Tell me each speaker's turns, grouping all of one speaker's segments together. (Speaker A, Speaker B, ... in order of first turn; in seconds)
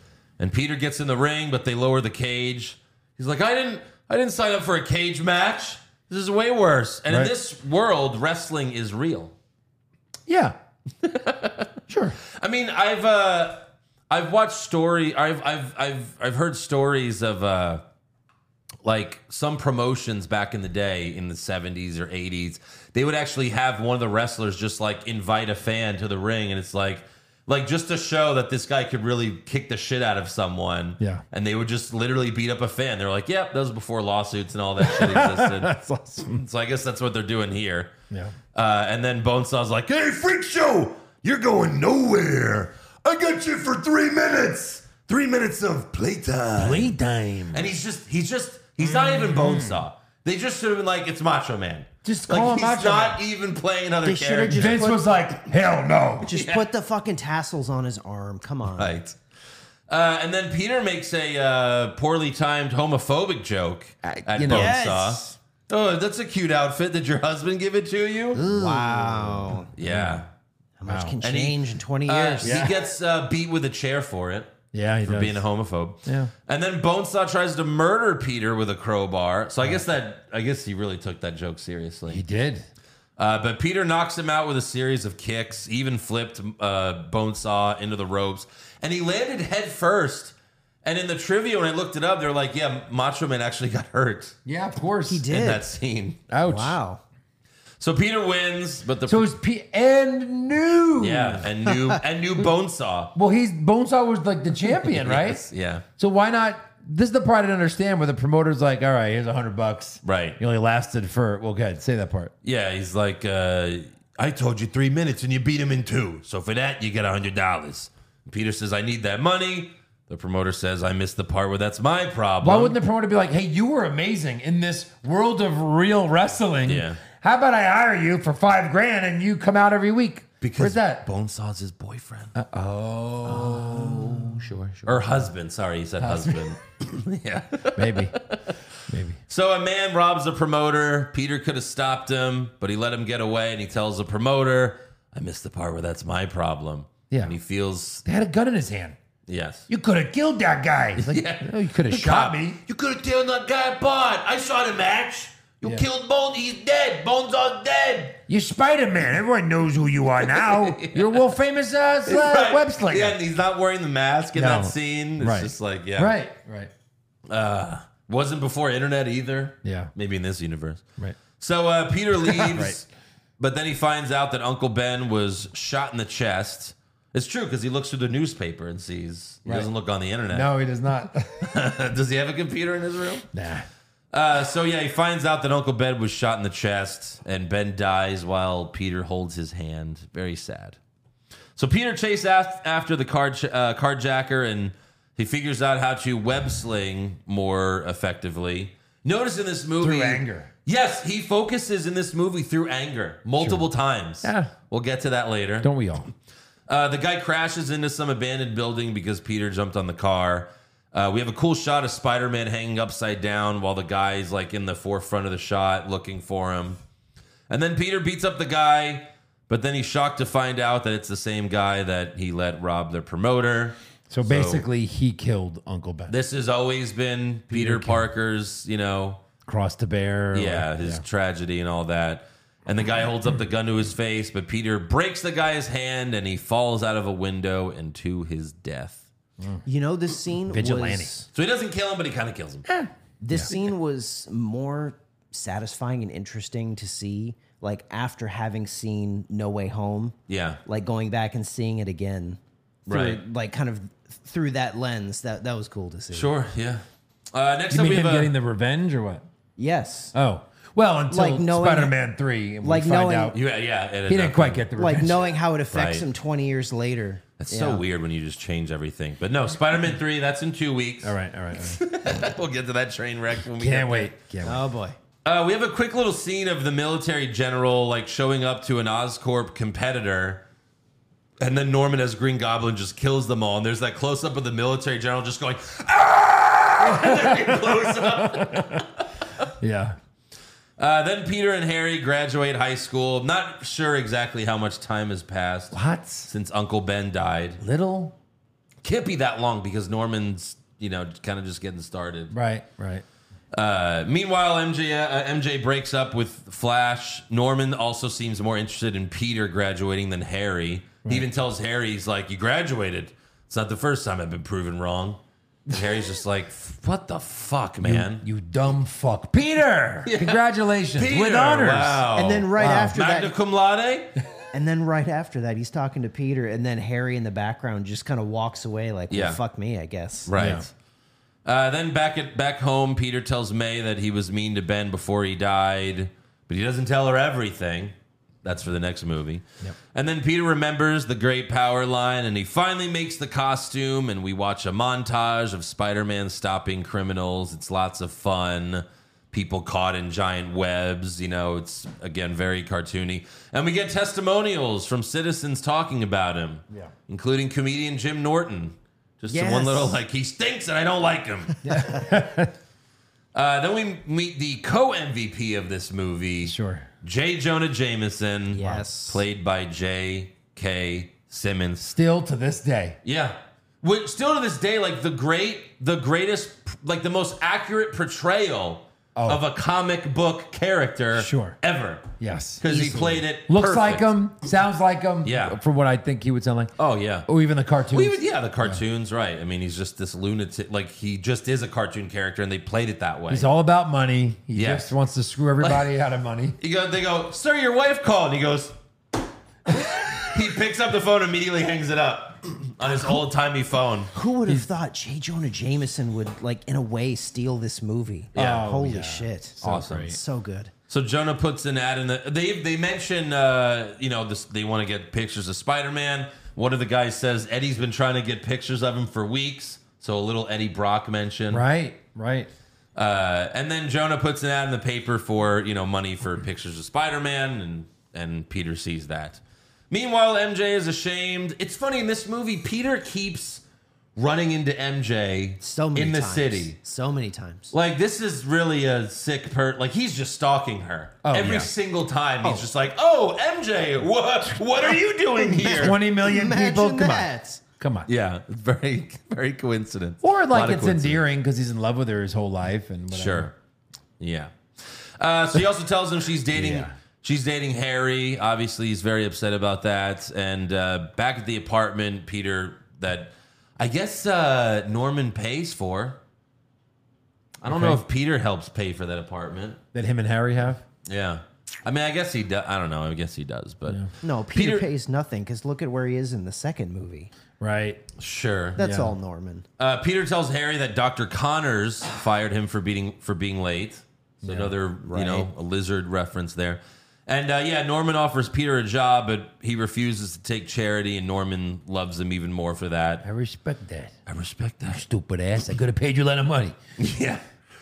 Speaker A: 0.4-9.3, 11.0-11.7, 12.3-17.8, 18.8-37.9, 38.5-46.9, 47.5-54.9, 56.3-56.7, 58.8-59.2, 59.9-68.4, 69.8-70.3, 71.2-82.2, 83.2-94.3, 95.3-96.2, 97.8-99.3, 101.0-103.1, 104.9-105.8, 110.0-110.4, 112.4-122.8, 126.7-127.0, 130.4-132.3, 133.4-138.6, 139.3-148.0, 149.3-149.7, 151.0-158.2, 160.3-161.2, 162.0-166.1, 167.3-170.8, 171.4-172.9, 173.4-180.5, 181.4-183.3, 184.1-190.8, 191.6-205.7, 206.7-216.8, 217.5-224.6, 226.1-229.2, 230.3-239.0, 241.3-242.7, 250.3-250.6, 252.9-253.2, 256.1-258.3, 263.3-264.7, 265.7-266.1, 267.4-274.1, 275.2-280.4, 281.4-289.4, 290.8-297.6, 298.8-302.3, 303.5-318.2, 320.0-324.1, 329.1-329.4, 330.2-330.7, 331.4-361.6, 363.3-371.9, 373.0-384.1, 385.2-385.6, 386.8-387.3, 387.9-393.5, 394.5-394.9, 395.6-395.9, 396.6-398.8, 399.7-404.1, 408.4-408.6, 409.6-410.2, 410.9-421.6, 423.0-433.6, 434.1-436.8, 437.7-446.0, 448.1-451.2, 453.1-453.5, 454.2-454.5, 455.2-466.2, 467.6-469.8, 471.1-474.9, 478.2-478.8, 479.8-493.2, 494.3-495.0, 497.0-497.4
Speaker B: 10.3-10.6, 11.9-12.2, 34.8-36.4, 38.1-38.4, 46.6-47.7, 48.8-49.8, 52.0-53.2, 54.5-56.3, 64.0-64.7, 68.3-70.2, 70.9-71.2, 72.4-72.8, 74.7-75.4, 76.1-76.3, 82.1-82.7, 94.4-95.3, 96.3-96.8, 99.1-101.5, 103.1-105.4, 106.0-112.3, 122.4-131.0, 132.3-135.0, 136.0-136.5, 137.8-138.2, 138.9-139.2, 147.1-147.4, 148.0-149.0, 149.7-152.6, 158.3-163.2, 164.3-166.7, 169.6-169.9, 172.2-172.8, 180.3-181.5, 183.3-183.7, 199.8-200.5, 204.2-204.5, 205.6-206.1, 224.1-226.1, 227.5-228.0, 229.5-231.0, 240.5-241.2, 242.7-243.5, 257.7-259.2, 260.1-263.4, 264.1-265.3, 271.0-271.8, 273.6-274.6, 286.8-288.8, 289.6-290.0, 295.7-296.3, 297.6-298.1, 302.3-303.0, 317.8-323.0, 330.4-330.6, 361.6-362.5, 366.4-366.9, 371.9-373.0, 379.1-379.4, 381.1-381.6, 382.2-386.7, 387.3-388.8, 393.3-396.6, 408.4-410.2, 421.5-422.5, 441.2-441.7, 445.8-448.1, 450.2-453.5, 456.5-456.9, 467.6-468.0, 469.9-470.8, 477.6-478.0, 478.8-479.1, 484.4-484.7, 493.2-494.1, 494.9-496.8
Speaker C: 54.0-55.2, 56.2-58.9, 64.5-65.4, 68.4-69.7, 70.8-72.6, 95.1-95.7, 96.4-97.0, 239.6-241.3, 243.2-250.1, 250.7-256.3, 259.6-260.1, 261.1-261.9, 262.6-263.4, 264.8-267.8, 274.4-275.0, 322.1-323.3, 324.5-330.3, 359.3-360.0, 368.5-369.2, 404.1-410.7, 435.6-437.7, 445.4-447.6, 474.2-477.3, 478.8-479.6, 485.0-485.5